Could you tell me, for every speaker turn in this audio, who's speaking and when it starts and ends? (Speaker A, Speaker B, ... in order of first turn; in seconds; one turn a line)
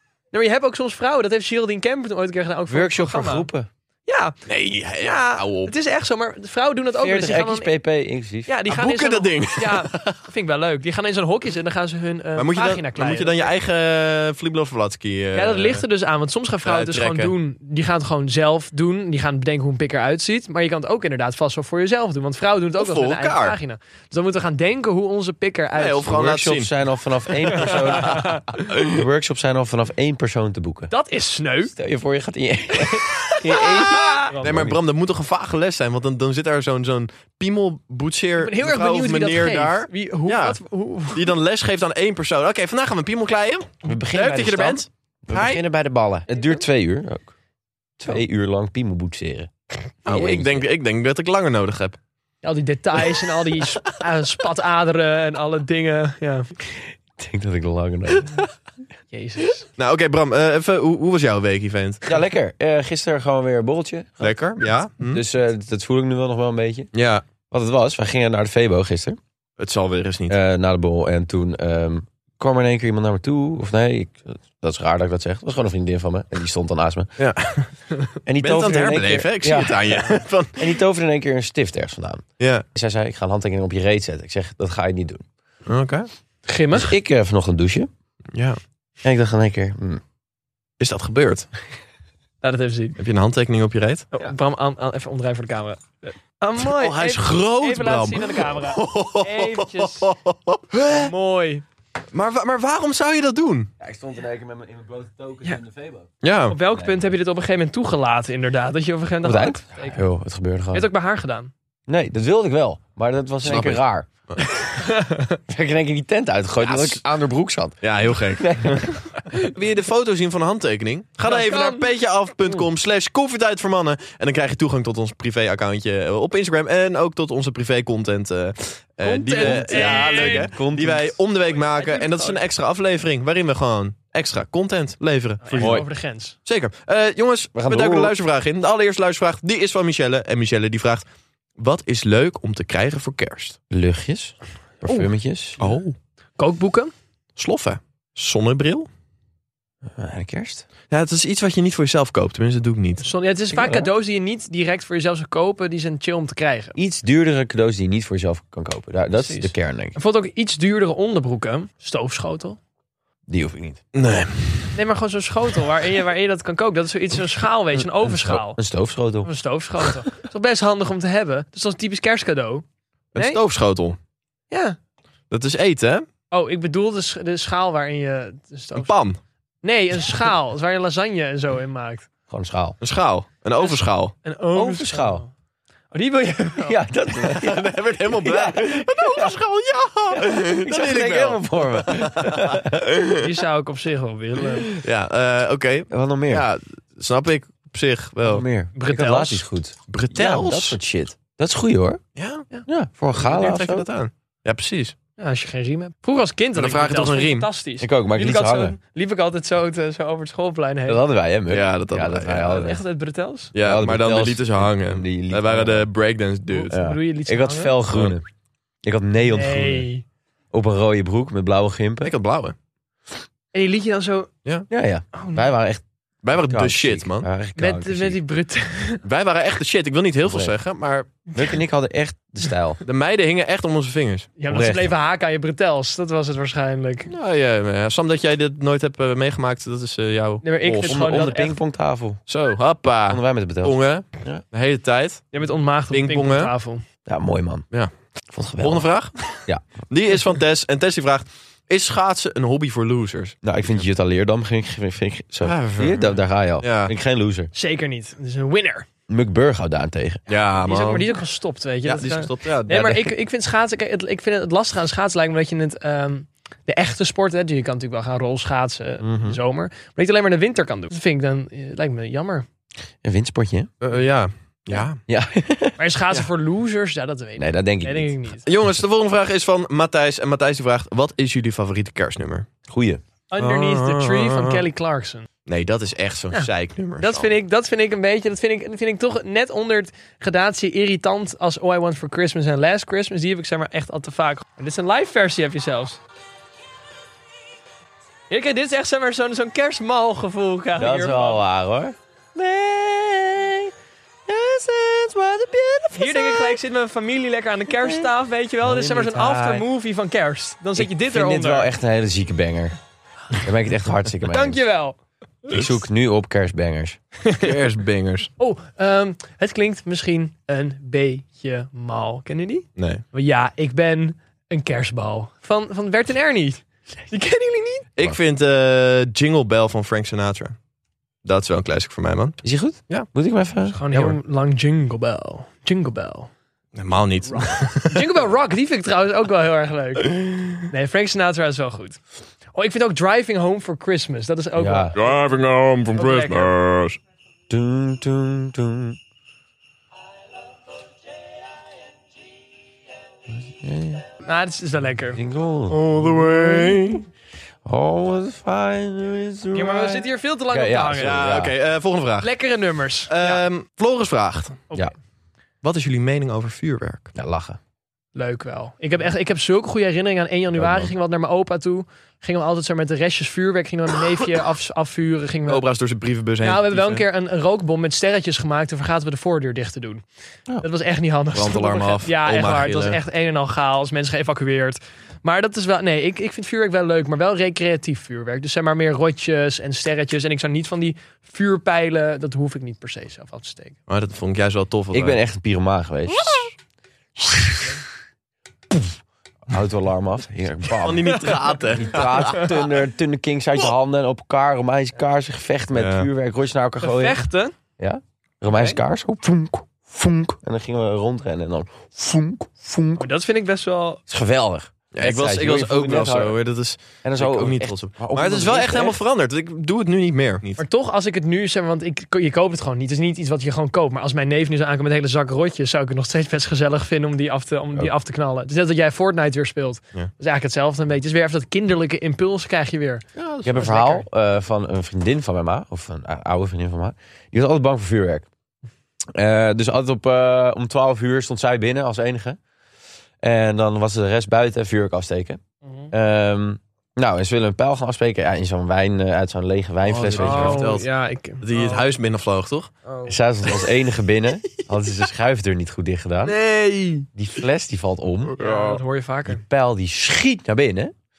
Speaker A: 0.3-3.5
Speaker B: 2.7-3.7
Speaker A: 4.1-4.3
Speaker C: 4.5-5.7
Speaker A: 5.0-7.7
Speaker B: 6.9-8.5
Speaker A: 8.5-13.5
Speaker C: 8.7-10.2
Speaker C: 12.4-15.8
Speaker A: 15.3-26.1
Speaker C: 16.6-17.3
Speaker C: 22.8-23.6
Speaker C: 25.8-26.7
Speaker B: 26.1-30.9
Speaker A: 27.6-28.4
Speaker A: 30.9-31.7
Speaker B: 31.7-34.8
Speaker A: 32.9-34.4
Speaker C: 34.4-40.6
Speaker A: 38.4-41.3
Speaker C: 41.1-45.5
Speaker B: 43.8-47.3
Speaker B: 48.0-49.5
Speaker B: 50.1-50.6
Speaker C: 50.1-52.0
Speaker A: 52.4-56.5
Speaker B: 57.2-58.5
Speaker A: 59.1-59.6
Speaker C: 59.8-62.1
Speaker B: 62.1-64.4
Speaker C: 64.2-65.2
Speaker B: 65.0-66.9
Speaker C: 66.9-67.2
Speaker B: 67.5-69.2
Speaker C: 69.6-70.4
Speaker B: 70.3-77.1
Speaker C: 77.2-77.7
Speaker B: 78.3-85.2
Speaker C: 78.4-80.8
Speaker C: 82.4-82.7
Speaker C: 85.7-86.1
Speaker A: 86.5-86.9
Speaker B: 86.7-87.9
Speaker C: 88.3-88.6
Speaker B: 89.0-90.0
Speaker C: 90.8-91.5
Speaker A: 92.4-93.0
Speaker C: 93.0-94.1
Speaker A: 94.1-100.1
Speaker C: 96.6-101.1
Speaker A: 100.9-101.6
Speaker C: 102.1-103.7
Speaker B: 103.8-106.1
Speaker C: 106.2-106.6
Speaker A: 106.5-110.0
Speaker B: 106.7-107.2
Speaker B: 109.2-110.9
Speaker A: 110.7-111.5
Speaker B: 111.9-114.1
Speaker C: 113.4-114.4
Speaker A: 114.8-115.4
Speaker B: 115.5-118.9
Speaker C: 116.6-117.0
Speaker C: 117.8-135.8
Speaker A: 121.2-121.9
Speaker A: 129.0-130.5
Speaker B: 129.1-131.2
Speaker A: 131.6-132.4
Speaker A: 135.4-136.4
Speaker B: 135.6-135.9
Speaker C: 136.5-141.0
Speaker B: 137.6-138.2
Speaker C: 141.6-143.6
Speaker B: 143.7-145.6
Speaker A: 144.8-145.1
Speaker C: 145.6-145.9
Speaker A: 146.4-146.9
Speaker C: 147.4-148.9
Speaker B: 149.9-150.7
Speaker C: 150.9-153.1
Speaker A: 153.0-156.8
Speaker B: 153.5-153.9
Speaker B: 156.8-160.0
Speaker A: 159.1-162.6
Speaker B: 163.3-163.8
Speaker C: 163.9-164.8
Speaker A: 164.8-168.6
Speaker B: 168.1-169.3
Speaker A: 169.2-172.7
Speaker C: 173.1-174.0
Speaker A: 173.2-173.4
Speaker A: 174.5-174.8
Speaker C: 175.3-176.1
Speaker A: 176.3-178.9
Speaker C: 178.8-179.2
Speaker A: 179.6-182.1
Speaker B: 182.3-182.8
Speaker C: 182.8-184.1
Speaker A: 183.6-185.3
Speaker B: 184.5-185.2
Speaker A: 185.9-186.8
Speaker B: 186.6-189.3
Speaker C: 187.3-192.8
Speaker B: 190.1-193.0
Speaker A: 193.2-194.7
Speaker C: 194.8-198.5
Speaker B: 195.9-196.5
Speaker B: 198.2-202.0
Speaker A: 198.8-199.4
Speaker C: 199.9-200.8
Speaker C: 202.2-202.5
Speaker B: 202.7-203.9
Speaker C: 203.2-204.9
Speaker A: 205.2-211.0
Speaker C: 206.6-207.5
Speaker B: 207.8-208.8
Speaker B: 210.9-212.8
Speaker C: 211.5-212.6
Speaker A: 212.5-213.5
Speaker C: 213.6-216.7
Speaker B: 213.6-215.9
Speaker A: 216.5-217.8
Speaker B: 216.7-218.3
Speaker C: 217.9-218.2
Speaker B: 218.8-219.9
Speaker A: 219.3-220.0
Speaker B: 220.5-222.2
Speaker C: 222.0-222.6
Speaker A: 223.5-224.3
Speaker B: 224.7-225.8
Speaker A: 225.1-225.5
Speaker C: 226.2-227.3
Speaker B: 226.3-228.2
Speaker A: 227.6-229.0
Speaker C: 229.0-231.1
Speaker B: 230.2-230.6
Speaker B: 231.3-232.8
Speaker C: 232.8-234.3
Speaker A: 234.4-237.1
Speaker B: 234.5-234.9
Speaker C: 237.1-241.3
Speaker A: 240.4-241.6
Speaker B: 240.9-242.2
Speaker C: 242.3-245.3
Speaker B: 243.1-244.4
Speaker A: 245.3-246.8
Speaker C: 245.9-246.5
Speaker B: 247.1-247.7
Speaker B: 248.3-248.9
Speaker C: 248.6-253.8
Speaker B: 253.4-257.5
Speaker C: 255.4-256.9
Speaker A: 257.6-258.9
Speaker B: 259.1-260.2
Speaker C: 260.3-261.1
Speaker A: 260.6-272.5
Speaker C: 261.9-263.1
Speaker B: 269.0-269.4
Speaker B: 273.0-273.7
Speaker C: 273.8-275.0
Speaker B: 275.1-275.8
Speaker A: 275.8-278.5
Speaker B: 277.4-278.1
Speaker C: 278.5-282.5
Speaker B: 282.7-283.0
Speaker A: 283.3-285.3
Speaker C: 283.4-284.6
Speaker C: 285.5-287.3
Speaker A: 287.0-296.0
Speaker A: 298.3-301.4
Speaker B: 300.8-303.7
Speaker B: 304.3-306.6
Speaker A: 305.9-311.7
Speaker B: 307.8-308.1
Speaker B: 308.6-309.6
Speaker B: 310.8-312.8
Speaker B: 313.4-314.6
Speaker A: 314.3-315.0
Speaker B: 315.5-317.0
Speaker A: 317.2-317.5
Speaker C: 317.4-318.3
Speaker A: 318.4-327.9
Speaker C: 322.8-323.0
Speaker C: 328.0-330.6
Speaker C: 331.2-333.1
Speaker B: 332.4-333.8
Speaker A: 333.7-336.3
Speaker C: 333.9-334.2
Speaker C: 336.8-338.1
Speaker A: 337.3-342.0
Speaker C: 340.1-340.5
Speaker A: 342.5-345.1
Speaker B: 344.6-344.9
Speaker C: 344.9-347.0
Speaker A: 345.9-346.5
Speaker B: 347.5-349.0
Speaker B: 353.3-354.0
Speaker A: 354.2-355.2
Speaker B: 355.1-357.0
Speaker C: 355.7-357.1
Speaker B: 357.6-361.5
Speaker A: 359.5-361.2
Speaker C: 361.0-362.3
Speaker A: 362.2-363.4
Speaker C: 363.1-364.6
Speaker C: 365.6-367.1
Speaker B: 367.1-367.6
Speaker A: 368.1-375.6
Speaker B: 370.6-370.9
Speaker C: 375.5-377.1
Speaker A: 376.4-380.0
Speaker A: 380.6-393.8
Speaker C: 381.3-383.0
Speaker C: 393.9-395.2
Speaker B: 394.9-396.4
Speaker B: 399.5-407.2
Speaker C: 400.8-402.5
Speaker C: 405.7-406.1
Speaker A: 406.8-407.5
Speaker B: 407.8-413.1
Speaker A: 413.0-414.0
Speaker B: 414.1-416.4
Speaker C: 414.9-420.6
Speaker B: 417.0-419.0
Speaker A: 420.6-434.0
Speaker C: 433.2-433.6
Speaker B: 433.4-438.3
Speaker B: 439.1-442.4
Speaker B: 443.2-445.4
Speaker A: 445.6-445.9
Speaker B: 445.9-450.7
Speaker C: 449.9-450.9
Speaker A: 450.2-451.9
Speaker C: 451.4-452.7
Speaker B: 453.1-456.4
Speaker C: 456.2-457.1
Speaker B: 457.1-458.4
Speaker C: 458.3-458.8
Speaker A: 458.4-459.4
Speaker B: 459.3-460.9